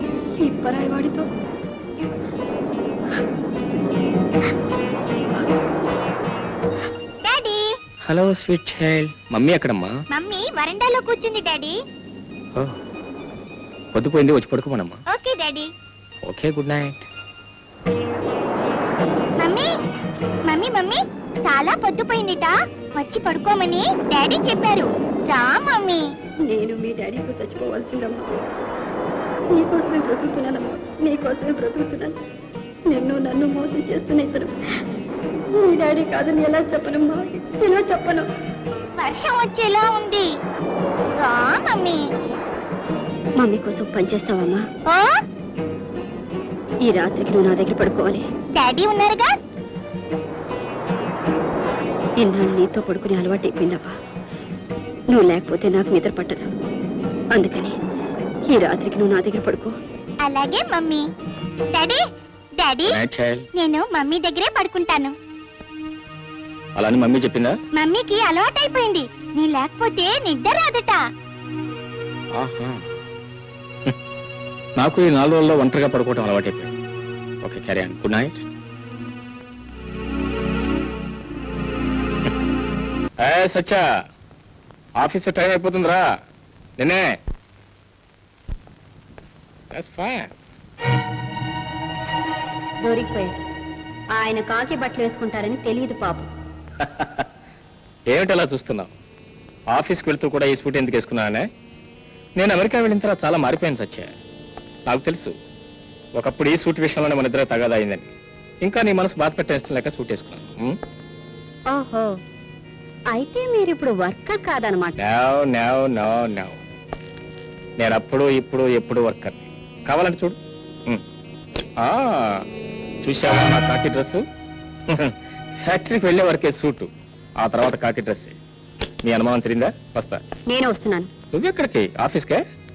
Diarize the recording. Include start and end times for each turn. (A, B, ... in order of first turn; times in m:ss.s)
0:00.4-0:01.2 A
0:07.2-0:07.7 B
0:08.0-0:10.0 C
0:10.1-0:11.8 B
0:13.9-0:15.0 C
0:15.1-0:15.7 B
0:16.2-0:17.0 C
0:19.4-0:19.7 B
0:20.4-0:26.0 B
0:26.5-0:28.4 A
0:29.5-0:32.2 A
0:32.9-0:34.5 A
0:35.5-0:38.2 A
0:39.0-0:40.3 B
0:41.1-0:42.0 B
0:43.4-0:44.6 A
0:44.8-0:45.2 B
0:46.8-0:48.2 A
0:48.5-0:49.3 B
0:52.2-0:53.9 A
0:55.1-0:56.5 A
0:57.3-0:57.7 A
0:58.5-0:59.7 A
1:00.2-1:01.0 B
1:01.7-1:02.0 B
1:02.6-1:03.0 B
1:02.8-1:03.5 C
1:03.5-1:05.1 B
1:06.7-1:07.6 C
1:07.7-1:11.0 B
1:12.3-1:12.8 C
1:14.8-1:16.7 C
1:17.4-1:18.4 C
1:23.2-1:23.8 C
1:25.0-1:26.0 C
1:26.8-1:27.1 C
1:29.7-1:30.3 C
1:32.8-1:33.3 A
1:34.1-1:36.2 A
1:36.8-1:37.2 C
1:38.1-1:38.9 C
1:39.7-1:41.4 C
1:42.4-1:44.1 C
1:44.9-1:45.3 C
1:46.2-1:48.1 C
1:48.6-1:50.8 C
1:51.7-1:52.1 A
1:53.1-1:54.9 A
1:55.0-1:56.6 C
1:57.8-2:00.4 C
2:01.8-2:02.4 C
2:03.0-2:04.2 C
2:04.9-2:06.9 C
2:07.4-2:08.4 C
2:09.0-2:10.2 C
2:10.5-2:11.1 A
2:11.3-2:12.4 C